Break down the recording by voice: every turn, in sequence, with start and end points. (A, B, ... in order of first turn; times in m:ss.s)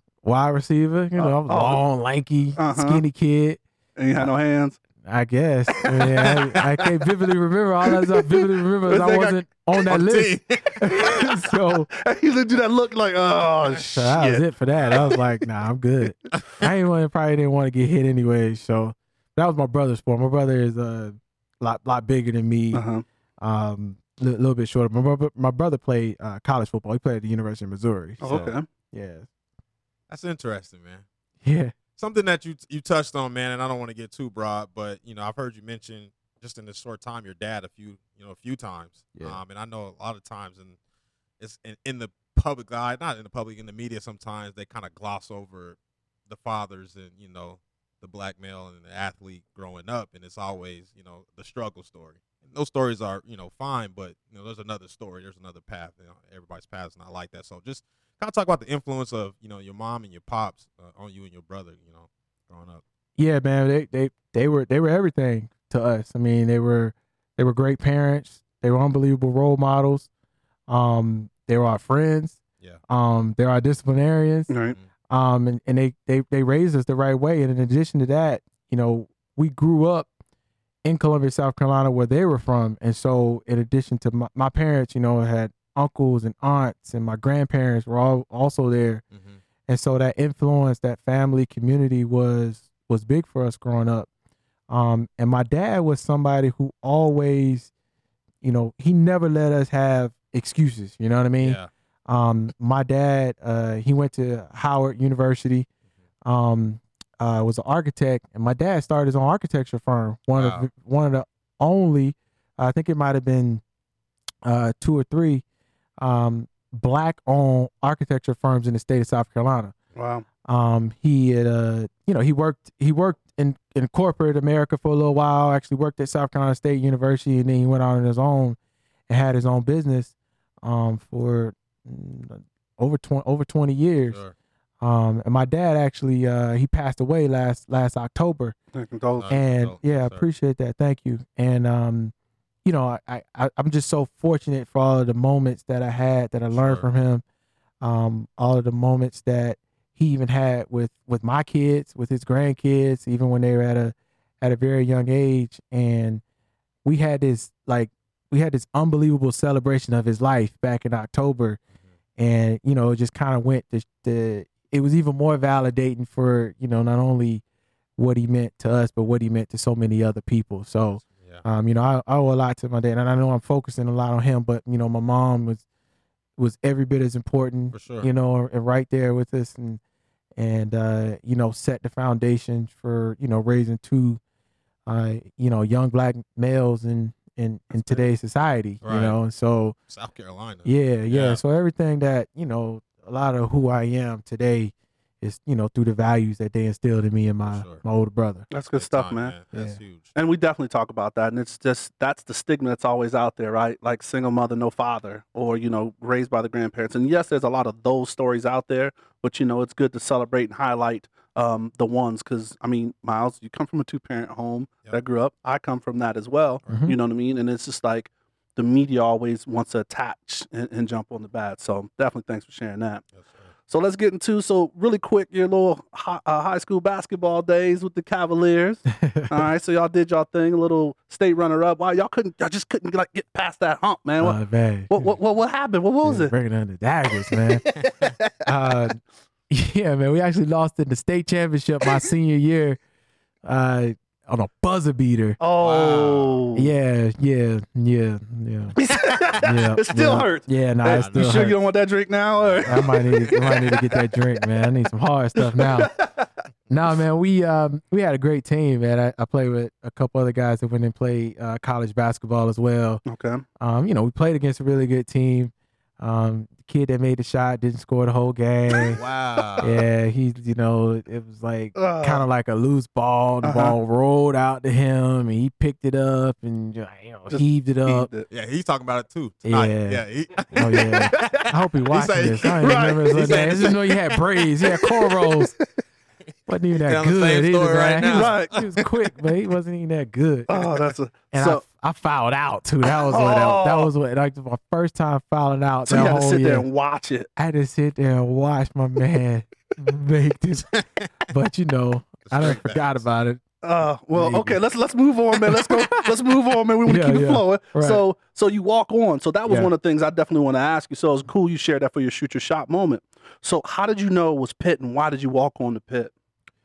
0:00.2-0:03.6 A
0:01.2-0:01.8 B
0:02.6-0:03.0 B
0:04.0-0:04.8 B
0:05.0-0:11.9 A
0:05.8-0:06.3 B
0:08.9-0:09.4 B
0:09.9-0:11.2 C
0:10.8-0:11.2 B
0:11.9-0:15.0 B
0:14.0-0:22.8 A
0:22.7-0:23.0 B
0:23.4-0:28.4 A
0:28.2-0:28.7 B
0:28.2-0:28.5 C
0:28.9-0:29.3 A
0:30.1-0:31.0 C
0:31.4-0:31.8 A
0:32.0-0:40.8 C
0:41.4-0:45.8 C
0:46.3-1:02.8 C
1:03.2-1:10.1 A
1:10.7-1:14.5 A
1:14.5-1:14.8 B
1:15.1-1:20.1 A
1:20.8-1:29.0 A
1:29.1-1:29.4 C
1:29.7-1:34.1 A
1:34.7-1:37.7 A
1:38.4-1:45.7 A
1:41.4-1:41.7 C
1:46.2-1:53.6 A
1:50.4-1:50.7 C
1:54.4-1:55.4 A
1:56.0-1:59.7 A
2:00.0-2:00.3 B
2:00.4-2:08.6 A
2:09.1-2:14.2 A
2:14.8-2:18.6 A
2:18.7-2:19.3 B
2:19.2-2:20.2 C
2:19.3-2:22.1 A
2:22.6-2:27.2 A
2:26.5-2:26.9 C
2:27.8-2:36.2 A
2:36.8-2:41.6 A
2:42.2-2:47.4 A
2:48.0-2:55.6 A
2:51.0-2:51.4 C
2:56.4-2:59.8 A
2:57.7-2:58.1 C
3:00.4-3:04.2 A
3:04.9-3:09.8 A
3:08.8-3:09.2 C
3:09.9-3:11.4 C
3:10.6-3:18.5 A
3:17.4-3:17.8 C
3:18.5-3:19.4 B
3:18.7-3:20.1 C
3:19.5-3:19.8 A
3:20.2-3:43.0 B
3:36.7-3:37.0 A
3:43.2-3:43.5 C
3:43.7-3:54.4 B
3:49.0-3:49.3 A
3:54.2-3:55.1 A
3:54.9-3:56.3 B
3:56.0-3:57.6 A
3:57.8-3:58.2 C
3:58.4-3:59.0 A
3:59.5-4:02.8 A
4:03.4-4:05.4 A
4:05.4-4:06.7 B
4:05.6-4:06.4 C
4:06.6-4:08.8 A
4:08.8-4:13.9 B
4:08.9-4:09.4 C
4:09.4-4:11.6 A
4:10.9-4:11.5 C
4:12.4-4:13.8 C
4:12.7-4:15.9 A
4:15.6-4:16.3 B
4:16.7-4:23.0 A
4:23.1-4:23.4 B
4:23.6-4:29.0 A
4:28.9-4:29.7 C
4:29.6-4:38.1 A
4:31.8-4:32.2 B
4:33.4-4:33.8 B
4:37.3-4:38.3 B
4:38.3-4:44.0 C
4:39.4-4:45.6 A
4:41.1-4:41.4 B
4:42.6-4:43.8 B
4:46.5-4:50.7 A
4:46.8-4:48.7 C
4:48.1-4:48.6 B
4:50.5-4:51.6 B
4:51.3-4:56.6 A
4:52.9-4:53.9 B
4:55.9-4:57.3 B
4:57.4-5:00.7 A
5:00.7-5:01.1 C
5:01.3-5:03.4 A
5:02.2-5:03.0 C
5:03.6-5:16.1 B
5:04.2-5:04.6 A
5:06.9-5:08.0 A